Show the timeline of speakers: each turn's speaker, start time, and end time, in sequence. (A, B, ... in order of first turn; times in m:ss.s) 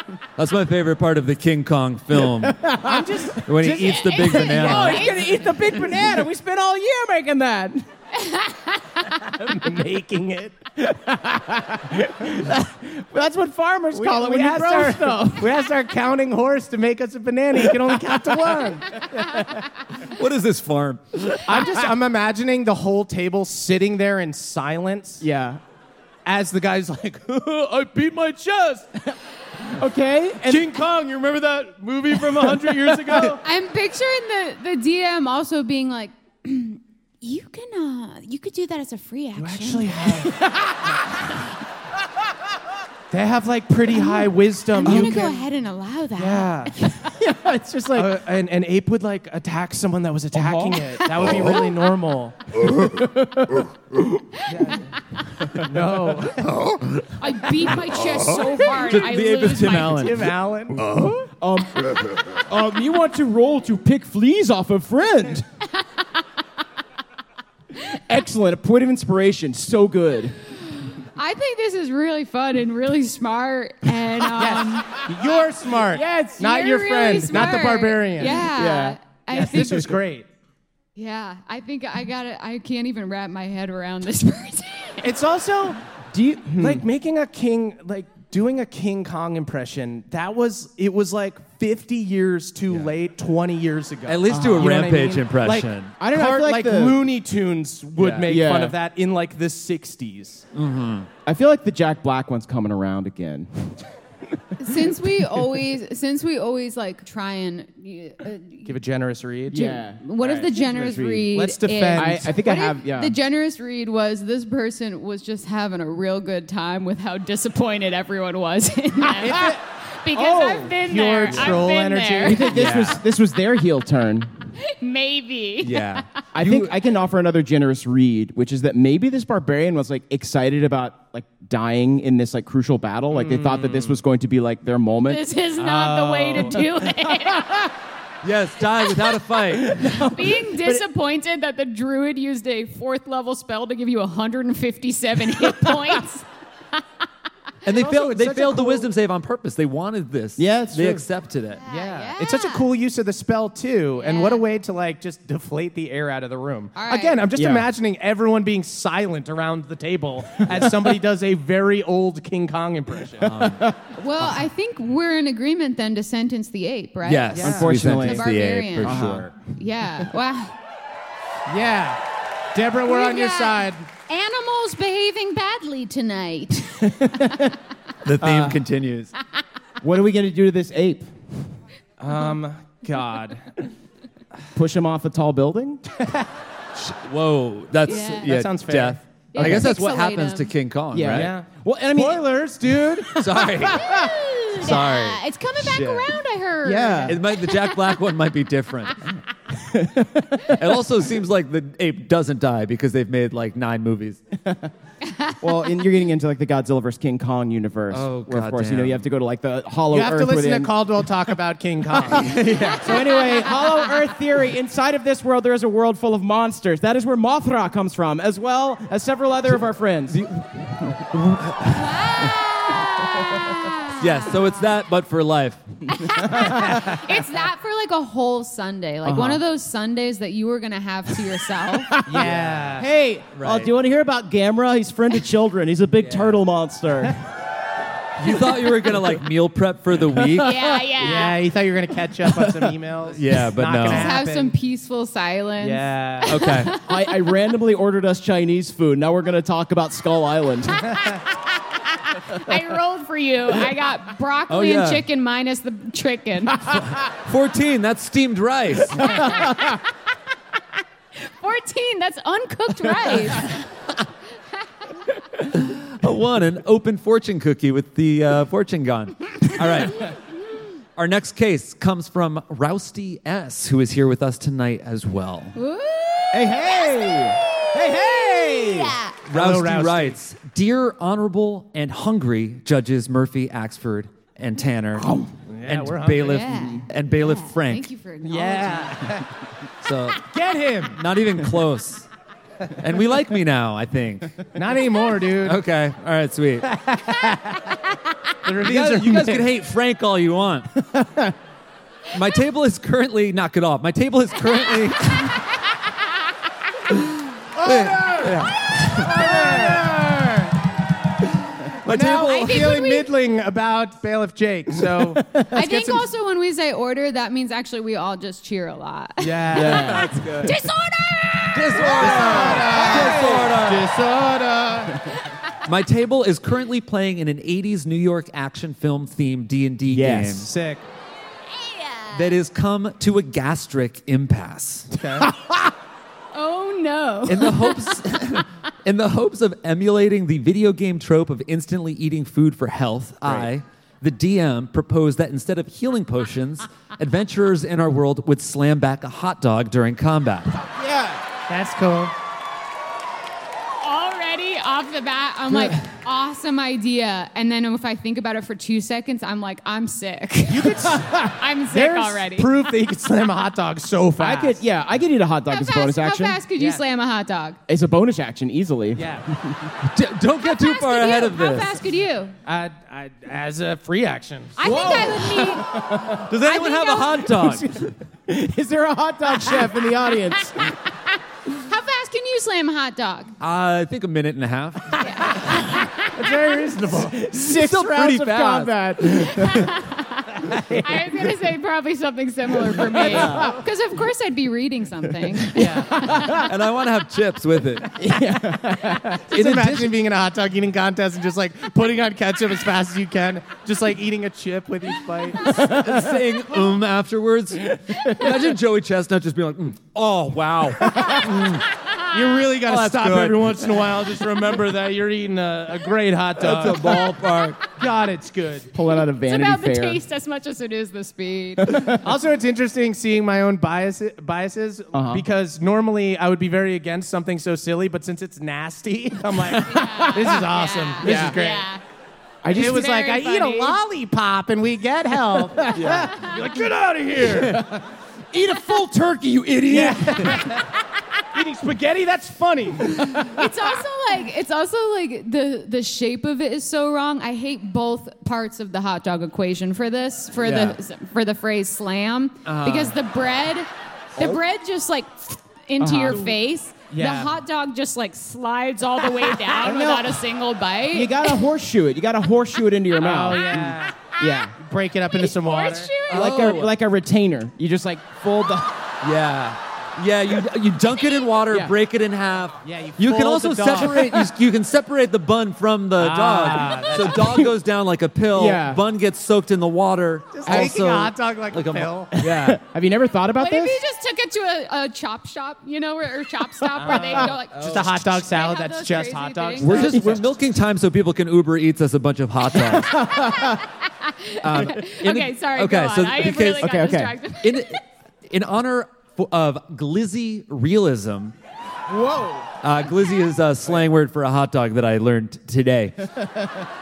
0:00.4-0:02.6 A
0:02.1-0:07.9 B
0:02.8-0:03.4 C
0:03.4-0:05.1 A
0:03.8-0:05.5 D
0:08.2-0:09.0 D
0:09.4-0:10.7 C
0:10.8-0:15.5 B
0:13.9-0:19.0 C
0:19.1-0:19.4 B
0:20.0-0:21.6 A
0:21.5-0:25.2 C
0:25.2-0:25.6 B
0:26.2-0:28.9 C
0:29.6-0:30.7 B
0:30.4-0:33.4 C
0:32.3-0:33.4 B
0:33.4-0:40.0 D
0:39.4-0:40.9 C
0:43.1-0:45.4 C
0:43.9-0:46.9 D
0:44.8-0:45.4 B
0:46.2-0:46.8 C
0:47.0-0:48.2 B
0:47.9-0:52.4 C
0:50.3-0:51.7 B
0:52.6-0:54.4 B
0:54.5-0:54.9 C
0:55.5-0:56.3 B
0:55.6-0:56.7 C
0:57.2-1:00.1 D
0:58.7-1:00.3 A
0:59.8-1:01.2 C
1:01.2-1:05.4 B
1:07.8-1:10.4 B
1:11.0-1:15.3 D
1:14.3-1:18.5 C
1:15.8-1:16.4 B
1:16.4-1:19.9 D
1:18.2-1:19.9 B
1:19.3-1:20.3 C
1:21.0-1:25.1 D
1:25.0-1:25.8 C
1:26.1-1:26.8 B
1:26.6-1:40.4 C
1:34.1-1:35.9 A
1:34.3-1:34.8 B
1:36.0-1:37.0 B
1:38.0-1:38.3 A
1:38.2-1:38.8 B
1:40.5-1:41.1 A
1:41.2-1:45.2 B
1:44.6-1:48.7 D
1:48.6-1:50.5 C
1:49.5-1:51.3 B
1:49.6-2:02.5 D
1:51.3-1:52.3 C
1:51.9-1:53.1 B
1:59.2-1:59.6 C
2:00.1-2:00.8 B
2:00.7-2:02.6 C
2:02.2-2:04.5 B
2:02.5-2:03.0 A
2:04.6-2:06.0 D
2:05.6-2:06.7 A
2:06.3-2:15.2 B
2:13.1-2:14.0 C
2:15.1-2:17.7 D
2:15.6-2:16.6 C
2:18.2-2:19.9 A
2:19.6-2:20.8 B
2:19.8-2:26.2 D
2:27.6-2:31.6 A
2:27.7-2:28.9 C
2:30.4-2:31.0 B
2:31.6-2:32.7 D
2:31.7-2:43.3 C
2:34.0-2:34.4 D
2:36.7-2:37.2 D
2:37.3-2:37.7 B
2:43.2-2:43.7 A
2:43.2-2:43.8 B
2:43.9-2:50.5 D
2:47.0-2:49.3 A
2:47.3-2:47.7 C
2:47.4-2:48.3 B
2:48.8-2:49.3 B
2:51.5-2:52.0 C
2:52.5-2:53.8 C
2:52.8-2:57.4 D
2:57.0-2:57.5 B
2:58.0-2:59.1 A
2:58.2-2:58.6 B
2:59.8-3:01.3 B
3:02.0-3:03.7 C
3:04.5-3:05.8 B
3:06.0-3:06.3 C
3:06.8-3:11.3 A
3:07.8-3:08.3 D
3:07.9-3:09.0 C
3:09.3-3:10.5 D
3:09.4-3:09.6 B
3:10.9-3:12.2 B
3:11.1-3:13.2 C
3:12.8-3:14.1 B
3:13.1-3:14.0 A
3:13.7-3:18.0 D
3:14.5-3:16.1 A
3:16.6-3:17.2 B
3:17.1-3:19.0 A
3:19.5-3:20.6 B
3:20.5-3:24.2 A
3:24.4-3:24.7 B
3:25.0-3:25.5 D
3:25.4-3:30.8 B
3:27.9-3:29.0 A
3:29.9-3:33.0 C
3:31.9-3:40.2 B
3:32.2-3:32.8 A
3:32.6-3:33.8 D
3:40.1-3:42.4 A
3:41.7-3:44.2 D
3:43.9-3:45.6 A
3:45.9-3:52.0 D
3:46.1-3:46.8 B
3:46.6-3:47.0 C
3:49.0-3:49.4 B
3:51.9-3:57.2 B
3:52.0-3:52.9 C
3:52.2-3:53.7 A
3:56.0-3:56.4 A
3:58.2-4:00.6 A
4:00.4-4:01.4 D
4:01.0-4:04.6 C
4:03.1-4:04.1 A
4:03.8-4:07.2 D
4:05.6-4:06.3 C
4:06.2-4:06.7 A
4:06.8-4:10.9 B
4:11.9-4:16.8 D
4:14.5-4:15.0 A
4:16.6-4:19.4 A
4:19.4-4:19.8 D
4:21.2-4:23.6 D
4:25.4-4:30.2 A
4:31.0-4:35.5 A
4:35.5-4:39.2 D
4:36.3-4:39.0 B
4:39.2-4:45.1 A
4:39.3-4:40.2 C
4:45.0-4:45.3 B
4:45.5-4:46.5 C
4:45.6-4:47.9 A
4:46.2-4:49.1 D
4:46.6-4:46.8 B
4:48.2-4:49.3 C
4:49.8-4:50.3 A
4:50.2-4:51.0 C
4:50.9-4:52.1 A
4:52.8-4:54.4 A
4:54.5-4:55.6 C
4:55.4-4:56.7 A
4:56.6-4:57.7 C
4:58.4-4:59.4 C
4:58.6-5:00.8 A
5:00.9-5:01.3 B
5:02.1-5:05.4 A
5:07.6-5:10.6 C
5:07.6-5:09.1 A
5:09.1-5:09.9 B
5:11.5-5:12.7 A
5:11.8-5:16.0 C
5:12.2-5:13.1 D
5:14.9-5:15.4 B
5:15.5-5:22.8 D
5:19.2-5:20.2 C
5:19.5-5:20.1 B
5:19.7-5:20.6 A
5:21.5-5:23.9 A
5:22.0-5:25.1 C
5:22.1-5:23.4 B
5:25.6-5:30.5 A
5:29.9-5:30.5 B
5:30.4-5:30.8 C
5:31.6-5:32.2 D
5:32.1-5:34.9 A
5:34.9-5:35.3 C
5:36.3-5:38.0 D
5:37.3-5:50.5 A
5:50.6-5:51.2 B
5:51.5-5:52.1 C
5:53.8-6:02.5 D
6:00.5-6:04.6 C
6:04.2-6:06.4 B
6:05.5-6:07.6 D
6:06.6-6:06.8 C
6:07.7-6:09.7 B
6:08.9-6:09.3 C
6:09.8-6:11.8 A
6:10.4-6:12.3 D
6:12.4-6:15.0 C
6:14.6-6:17.3 D
6:14.6-6:16.3 B
6:16.0-6:17.9 A
6:17.3-6:20.7 B
6:21.5-6:23.3 D
6:23.4-6:25.3 A
6:25.0-6:25.5 D
6:26.0-6:27.2 C
6:26.8-6:29.7 B
6:27.3-6:29.6 A
6:29.4-6:36.3 D
6:30.5-6:31.0 C
6:32.9-6:33.6 B
6:33.2-6:33.5 C
6:35.5-6:36.1 C
6:35.9-6:36.5 B
6:36.3-6:37.9 A
6:38.0-6:39.3 B
6:39.3-6:45.8 C
6:39.3-6:39.9 A
6:45.5-6:46.0 B
6:45.5-6:51.6 A
6:47.9-6:48.3 B
6:52.1-6:57.0 C
6:52.6-6:53.8 A
6:56.4-6:57.6 A
6:57.7-6:58.7 C
6:58.7-7:00.0 B
6:59.2-7:01.9 D
7:01.6-7:02.1 B
7:01.9-7:11.7 C
7:04.9-7:05.2 B
7:09.6-7:11.8 D
7:11.0-7:11.4 B
7:12.4-7:12.9 B
7:12.5-7:17.7 C
7:12.5-7:13.8 D
7:15.4-7:16.2 B
7:15.7-7:16.1 A
7:17.2-7:17.8 B
7:18.3-7:20.5 B
7:19.7-7:20.7 C
7:21.3-7:23.4 C
7:23.2-7:41.4 D
7:30.4-7:30.8 B
7:32.4-7:33.0 A
7:34.2-7:34.4 B
7:35.8-7:36.3 B
7:36.9-7:37.4 C
7:39.5-7:40.2 B
7:40.9-7:44.6 B
7:43.0-7:44.0 C
7:43.3-7:43.8 D
7:44.6-7:45.9 C
7:45.2-7:46.6 D
7:46.1-7:46.7 A
7:46.1-7:49.0 B
7:49.0-8:02.6 A
7:51.5-7:51.7 B
7:52.6-7:54.1 C
7:53.9-7:54.3 B
7:56.0-7:57.4 C
7:57.2-7:57.5 B
7:58.3-7:58.8 B
8:00.3-8:02.1 C
8:00.4-8:00.8 B
8:02.1-8:03.8 B
8:03.4-8:09.9 D
8:06.8-8:10.3 C
8:06.9-8:07.2 B
8:07.6-8:07.9 A
8:09.6-8:13.0 A
8:09.9-8:10.2 B
8:12.6-8:13.6 B
8:13.1-8:17.8 D
8:14.4-8:21.3 A
8:16.6-8:17.2 B
8:21.9-8:22.5 B
8:22.6-8:26.1 A